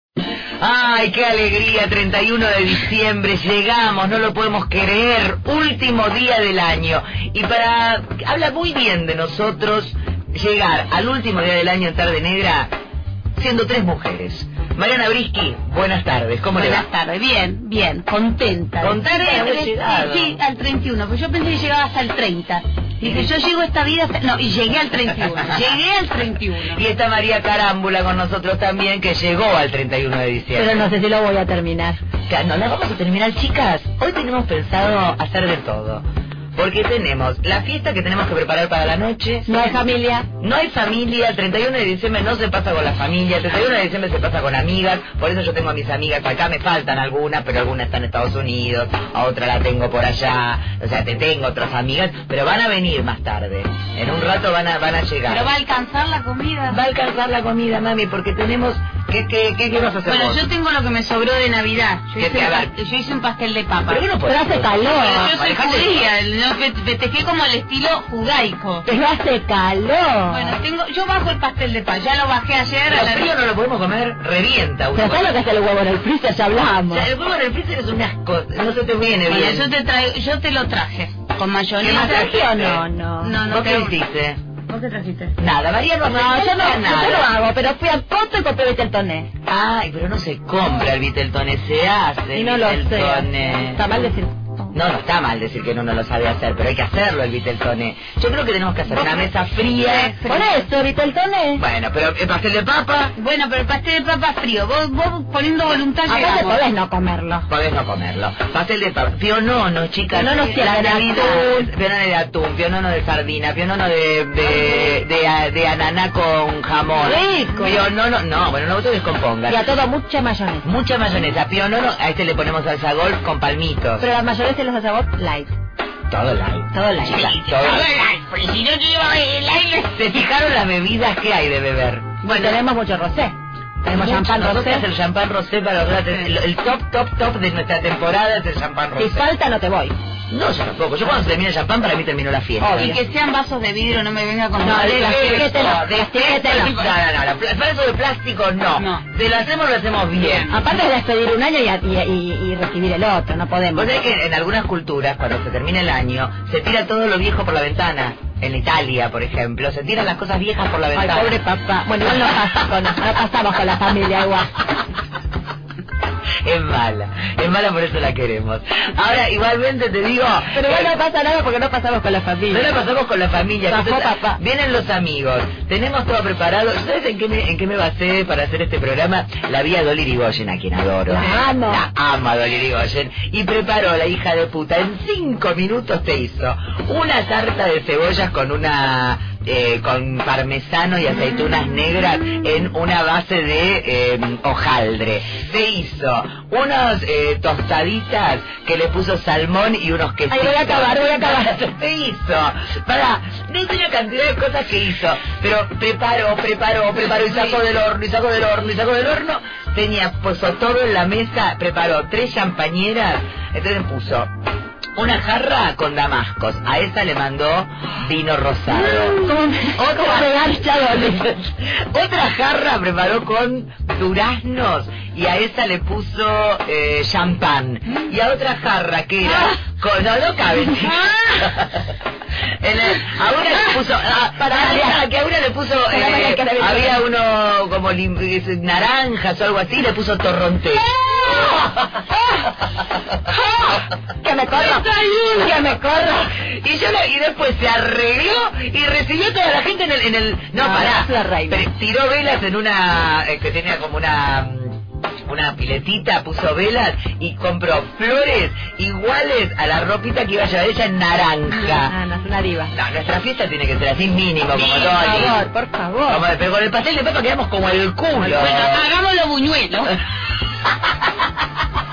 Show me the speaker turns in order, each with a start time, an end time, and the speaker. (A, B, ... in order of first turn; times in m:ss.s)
0:00.6-0:12.7 A
0:13.4-0:16.8 A
0:16.5-0:26.8 B
0:18.8-0:20.4 A
0:23.0-0:23.3 A
0:26.7-0:30.9 A
0:30.5-0:32.0 C
0:32.3-0:39.6 A
0:39.5-0:40.3 C
0:40.4-0:55.5 A
0:55.2-0:56.8 B
0:56.7-1:00.4 A
1:00.0-1:04.0 B
1:02.2-1:02.7 A
1:03.8-1:06.1 A
1:04.2-1:05.3 C
1:04.9-1:08.9 B
1:08.9-1:10.6 C
1:10.3-1:13.3 B
1:12.9-1:15.3 A
1:14.9-1:17.1 C
1:16.8-1:19.7 A
1:19.3-1:22.3 B
1:21.8-1:22.8 A
1:22.0-1:23.4 C
1:23.2-1:24.0 B
1:23.4-1:24.4 A
1:24.7-1:25.3 B
1:25.4-1:27.3 A
1:26.1-1:29.3 C
1:29.4-1:33.8 A
1:32.3-1:34.6 C
1:34.7-1:40.2 A
1:39.0-1:40.7 B
1:40.2-1:41.6 C
1:41.6-1:43.1 A
1:43.2-1:46.6 B
1:46.1-1:47.5 C
1:47.5-1:59.6 A
1:50.1-1:51.7 C
1:57.0-1:57.9 C
1:59.5-2:00.7 C
2:00.6-2:04.1 A
2:04.0-2:05.5 C
2:06.1-2:06.7 A
2:06.7-2:07.4 C
2:07.0-2:09.9 B
2:07.3-2:07.9 A
2:09.9-2:12.2 A
2:12.2-2:12.6 B
2:12.2-2:14.8 C
2:13.9-2:19.3 A
2:18.9-2:19.9 C
2:20.3-2:23.0 A
2:22.6-2:23.0 C
2:22.7-2:25.6 B
2:24.6-2:26.9 C
2:24.7-2:30.5 A
2:28.8-2:29.0 B
2:30.1-2:30.6 B
2:30.5-2:33.9 C
2:33.7-2:41.4 A
2:40.9-2:44.5 C
2:46.4-2:50.9 A
2:50.5-2:52.7 C
2:52.5-3:34.3 A
2:53.7-2:54.4 C
3:01.1-3:01.8 C
3:20.3-3:21.6 C
3:35.0-3:51.9 A
3:38.7-3:41.3 C
3:49.2-3:49.6 C
3:52.6-4:00.9 A
3:54.4-3:55.0 C
3:55.9-3:57.0 C
4:00.9-4:02.5 C
4:03.3-4:06.3 C
4:04.5-4:05.5 A
4:06.3-4:21.9 A
4:10.6-4:11.6 C
4:21.6-4:22.7 C
4:22.7-4:25.4 A
4:24.5-4:25.4 B
4:25.0-4:26.2 C
4:26.1-4:28.8 A
4:28.1-4:30.0 B